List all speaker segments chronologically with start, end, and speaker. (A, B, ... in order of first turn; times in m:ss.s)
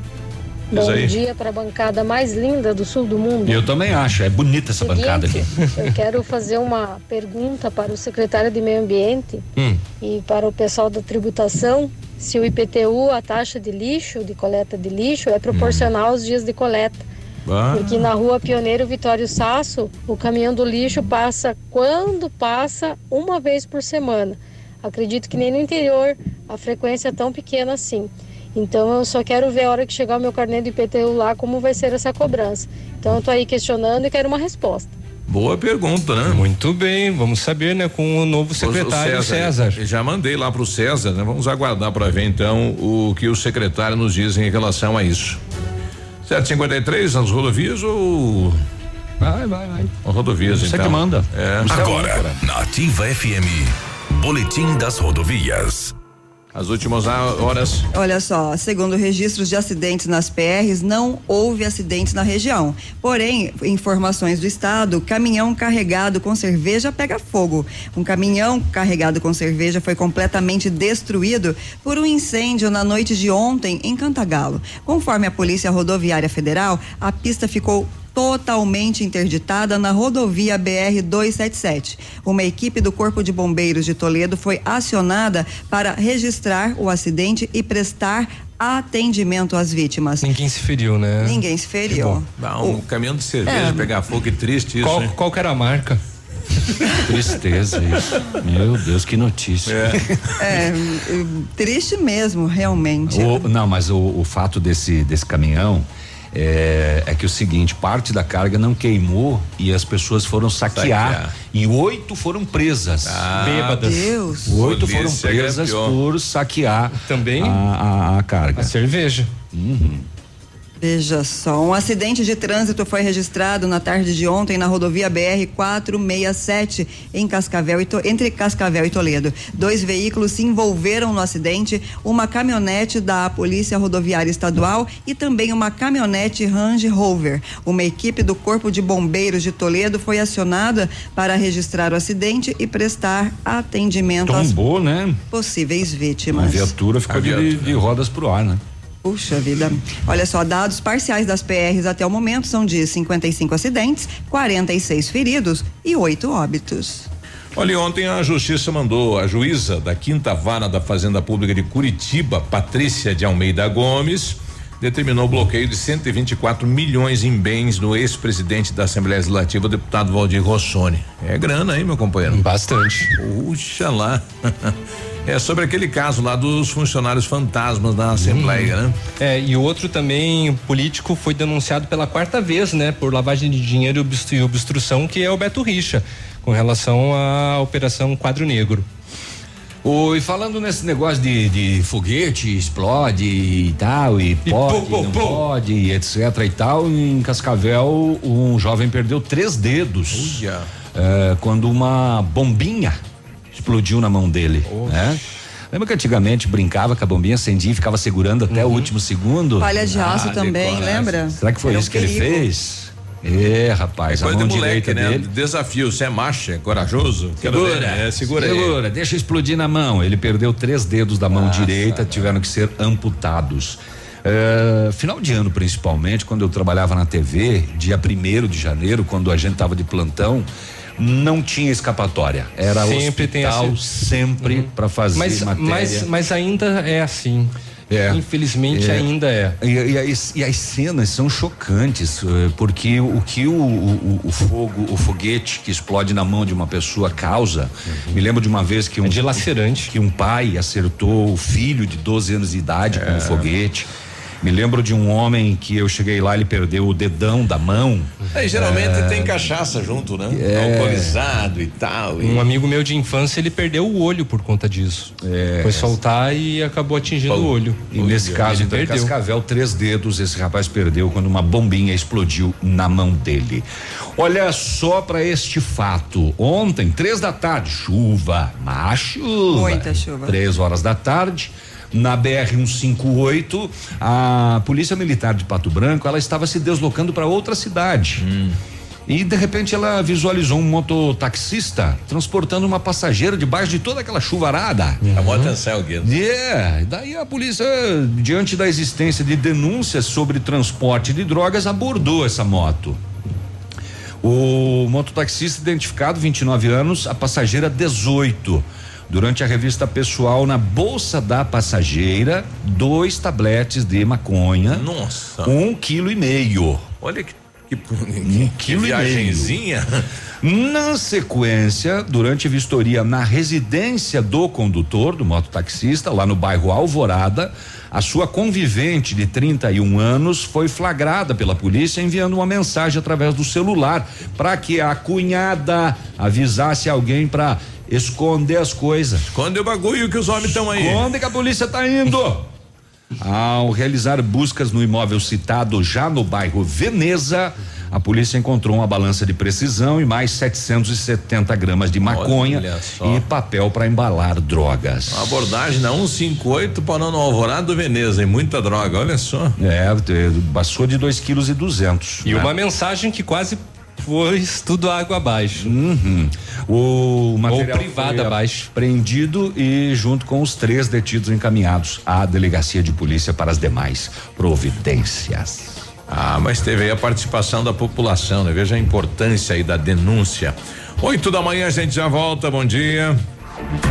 0:00.7-0:03.7 A
0:00.7-0:01.2 B
0:03.4-0:05.5 C
0:04.8-0:09.4 A
0:10.0-0:17.0 A
0:15.5-0:15.9 B
0:17.5-0:18.0 B
0:17.7-0:34.9 A
0:35.3-0:36.4 B
0:36.3-0:39.8 D
0:38.6-0:45.4 B
0:46.3-0:48.6 B
0:49.2-0:49.9 C
0:50.0-0:51.8 B
0:50.5-0:52.4 C
0:51.7-0:55.9 E
0:56.5-0:57.9 B
0:57.9-1:30.3 F
1:30.2-1:31.4 D
1:31.2-1:32.8 F
1:32.4-1:35.1 B
1:33.5-1:33.8 D
1:34.8-1:36.0 D
1:37.0-1:40.1 C
1:39.7-1:40.0 B
1:40.4-1:43.5 F
1:43.1-1:53.6 C
1:50.7-1:51.3 B
1:53.0-1:53.9 B
1:53.4-1:54.1 D
1:53.8-1:54.6 F
1:54.5-1:58.7 C
1:54.5-1:56.0 B
1:57.0-1:57.6 D
1:58.6-1:59.3 D
1:59.5-2:00.1 C
2:00.8-2:24.6 F
2:24.3-2:25.2 C
2:25.3-2:26.7 F
2:26.3-2:28.6 C
2:27.1-2:27.8 B
2:29.0-2:37.1 F
2:37.6-2:52.4 B
2:52.3-2:53.1 D
2:53.2-2:54.7 B
2:55.2-2:59.0 B
2:58.2-3:08.8 D
3:09.8-3:20.4 C
3:14.5-3:15.4 D
3:20.1-3:20.7 B
3:20.9-3:23.0 C
3:23.5-3:25.2 C
3:25.7-3:29.8 C
3:28.5-3:28.9 D
3:29.6-3:32.5 F
3:29.8-3:31.2 B
3:31.4-3:35.3 C
3:34.1-3:38.8 B
3:37.4-3:56.1 C
3:41.3-3:42.3 B
3:52.8-3:53.8 D
3:54.4-3:57.5 D
3:57.9-3:59.1 C
3:58.1-3:59.6 D
3:59.6-4:13.9 C
4:09.0-4:09.9 D
4:12.9-4:13.5 B
4:14.4-4:19.5 C
4:18.3-4:22.4 B
4:20.3-4:21.2 C
4:22.2-4:27.8 D
4:25.2-4:26.0 C
4:27.3-4:28.4 B
4:27.9-4:33.6 C
4:28.4-4:29.1 D
4:34.2-4:48.2 C
4:39.5-4:40.4 F
4:48.2-4:48.6 B
4:49.1-4:55.4 C
4:55.1-4:56.1 B
4:56.0-5:03.0 C
5:04.2-5:14.9 C
5:14.7-5:15.5 B
5:15.4-5:16.9 C
5:17.0-5:20.0 B
5:18.2-5:19.6 C
5:20.4-5:39.3 C
5:39.3-5:41.1 B
5:40.5-5:42.5 C
5:43.2-5:55.3 C
5:52.1-5:53.2 B
5:55.1-5:59.6 B
5:59.6-6:02.5 C
6:02.2-6:05.7 D
6:05.6-6:15.9 C
6:07.5-6:08.7 D
6:16.1-6:23.2 B